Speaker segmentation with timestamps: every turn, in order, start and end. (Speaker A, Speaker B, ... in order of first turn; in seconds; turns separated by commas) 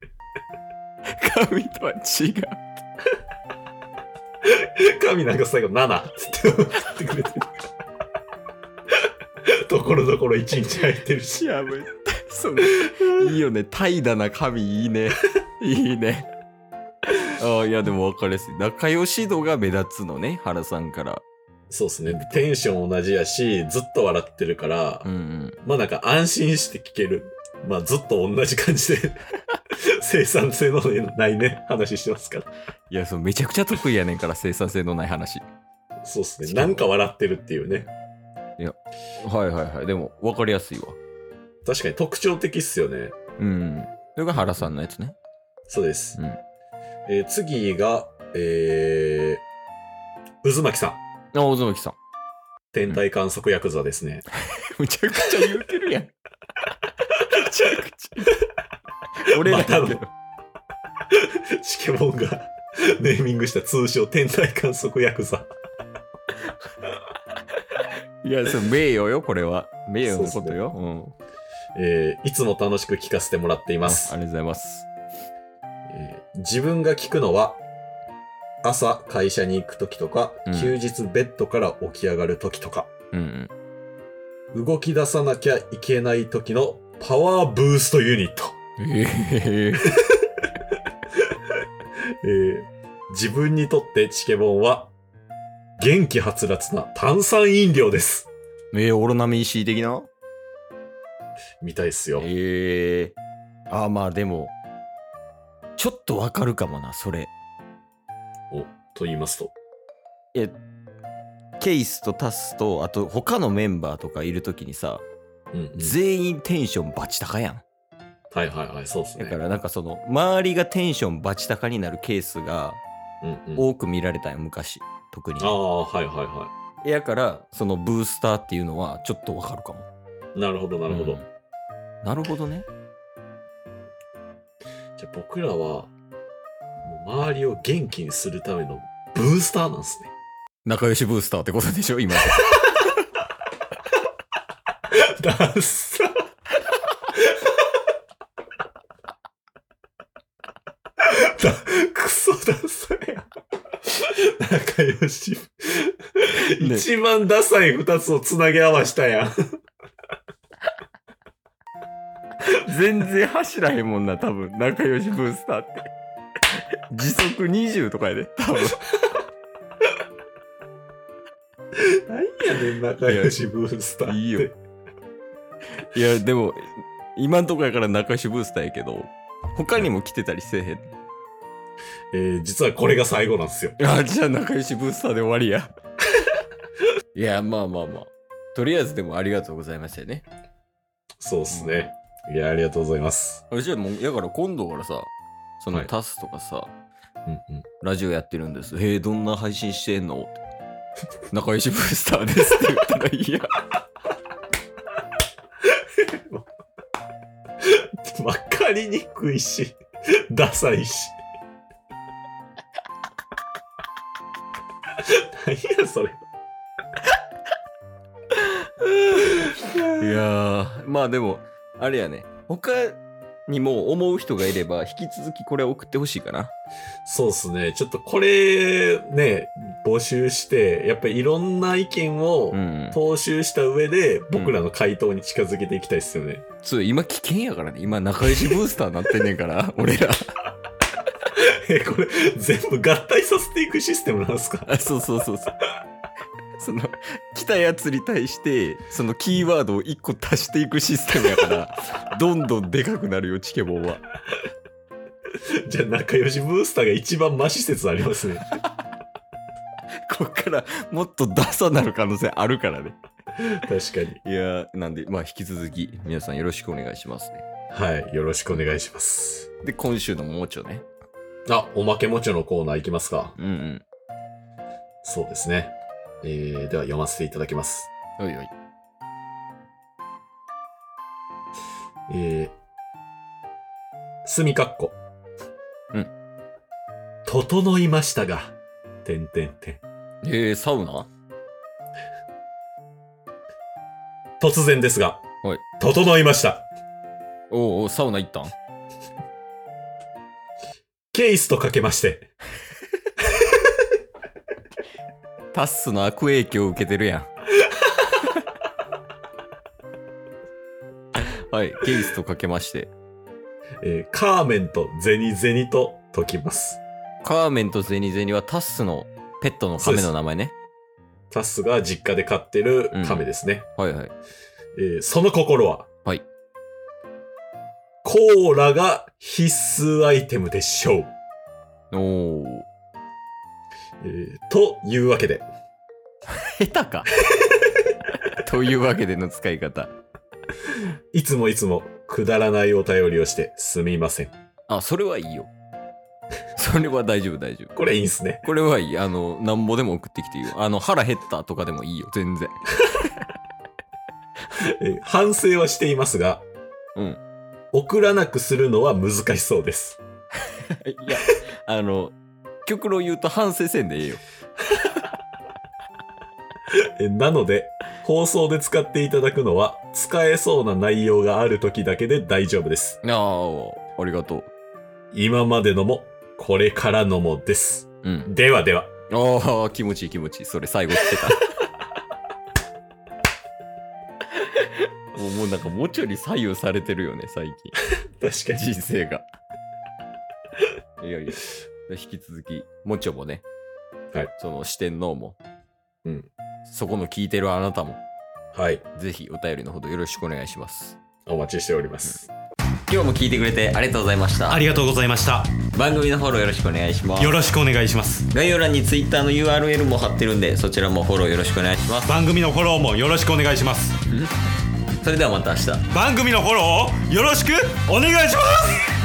Speaker A: 1.1-2.7, Speaker B: 4.9-7.5, Speaker B: 9.7-11.4, Speaker A: 11.4-16.3, Speaker A: 17.4-21.2, Speaker B: 21.7-25.1, Speaker A: 22.1-22.4, Speaker A: 25.0-25.6, Speaker B: 25.6-29.2, Speaker B: 30.0-32.5, Speaker A: 32.9-35.4, Speaker B: 36.0-37.9, Speaker A: 36.4-36.9, Speaker A: 38.6-41.0, Speaker B: 41.6-43.1, Speaker A: 43.4-45.1, Speaker B: 44.4-44.7, Speaker B: 45.7-46.2, Speaker B: 47.1-49.4, Speaker B: 50.4-51.0, Speaker A: 51.3-52.0, Speaker B: 52.7-54.2, Speaker A: 54.6-56.1, Speaker A: 57.2-58.3, Speaker A: 59.2-60.1, Speaker B: 59.4-60.0, Speaker B: 61.6-65.5, Speaker A: 68.2-71.1, Speaker B: 70.0-70.6, Speaker B: 71.8-74.2, Speaker A: 73.8-74.9, Speaker B: 75.9-77.6, Speaker B: 78.6-82.9, Speaker A: 80.5-80.7, Speaker A: 83.1-83.5, Speaker B: 84.5-88.6, Speaker A: 88.8-89.9, Speaker B: 92.2-94.9, Speaker B: 95.8-98.3, Speaker A: 98.7-100.1, Speaker B: 101.6-102.3, Speaker A: 102.2-103.1, Speaker A: 103.7-104.5, Speaker A: 105.8-107.3, Speaker B: 108.5-109.5, Speaker A: 111.6-115.0, Speaker B: 115.5-116.0, Speaker A: 115.8-117.6, Speaker B: 118.3-119.4, Speaker A: 119.2-122.8, Speaker B: 123.2-123.7, Speaker A: 123.6-125.6, Speaker B: 125.4-126.5, Speaker A: 126.8-129.8, Speaker B: 130.3-131.2, Speaker A: 130.9-131.2, Speaker A: 132.0-132.7, Speaker B: 135.0-135.9, Speaker B: 136.8-140.1, Speaker A: 140.7-142.6, Speaker B: 145.2-146.1, Speaker B: 151.3-153.2, Speaker B: 154.4-159.3, Speaker A: 156.4-156.9, Speaker A: 162.5-165.9, Speaker A: 166.9-168.8, Speaker B: 172.1-174.5, Speaker A: 173.0-173.4, Speaker A: 174.0-174.5, Speaker A: 175.9-180.9, Speaker B: 182.1-183.8, Speaker A: 183.8-185.7, Speaker A: 187.1-190.2, Speaker B: 191.2-193.4, Speaker A: 191.5-191.9, Speaker A: 193.5-196.7, Speaker B: 197.3-197.6, Speaker A: 197.8-200.4, Speaker A: 201.3-203.5, Speaker B: 207.6-209.8, Speaker B: 210.3-211.2, Speaker B: 215.4-216.2, Speaker B: 219.6-220.2, Speaker A: 220.0-226.5, Speaker B: 227.1-236.4, Speaker A: 232.5-233.0, Speaker A: 234.3-234.6, Speaker A: 236.6-240.2, Speaker B: 241.7-244.7, Speaker A: 244.7-245.6, Speaker A: 246.6-254.0, Speaker B: 255.7-258.4, Speaker A: 260.1-262.9, Speaker B: 263.5-264.2, Speaker A: 264.2-267.4, Speaker B: 267.7-269.5, Speaker A: 269.6-270.8, Speaker B: 271.5-273.3, Speaker A: 273.4-273.8, Speaker B: 275.0-277.9, Speaker A: 278.2-278.5, Speaker B: 282.1-282.5, Speaker B: 284.2-285.0, Speaker B: 287.2-289.8, Speaker A: 290.2-291.1, Speaker B: 294.4-295.2, Speaker B: 295.8-296.7, Speaker A: 297.5-298.5, Speaker B: 301.1-302.3, Speaker A: 305.5-307.3, Speaker A: 311.1-312.9, Speaker B: 313.8-316.8, Speaker A: 317.2-320.5, Speaker B: 319.8-320.1, Speaker B: 321.3-323.7, Speaker A: 322.9-324.1, Speaker B: 324.8-325.9, Speaker B: 328.0-331.1, Speaker A: 331.9-332.6, Speaker B: 334.0-335.5, Speaker A: 336.5-337.1, Speaker A: 338.4-339.9, Speaker B: 341.1-344.3, Speaker A: 344.7-345.5, Speaker A: 346.6-347.7, Speaker B: 347.7-348.4, Speaker A: 348.4-352.5, Speaker B: 354.8-356.4, Speaker B: 357.7-360.0, Speaker A: 360.8-364.2, Speaker B: 367.0-373.0, Speaker A: 373.0-374.5, Speaker B: 375.1-378.9, Speaker A: 378.0-378.3, Speaker A: 379.1-381.4, Speaker A: 384.4-387.7, Speaker B: 388.2-388.6, Speaker A: 388.5-389.2, Speaker A: 391.0-393.4, Speaker A: 394.4-395.4, Speaker A: 396.6-398.0, Speaker B: 398.5-398.8, Speaker A: 398.9-401.0, Speaker B: 401.2-402.3, Speaker A: 402.9-404.6, Speaker B: 404.5-405.4, Speaker C: 404.5-405.5, Speaker A: 405.7-407.4, Speaker B: 407.2-408.2, Speaker C: 407.2-408.0, Speaker A: 408.3-412.1, Speaker C: 412.0-413.9, Speaker B: 412.1-413.9, Speaker A: 415.0-415.9, Speaker B: 415.9-417.3, Speaker C: 415.9-418.9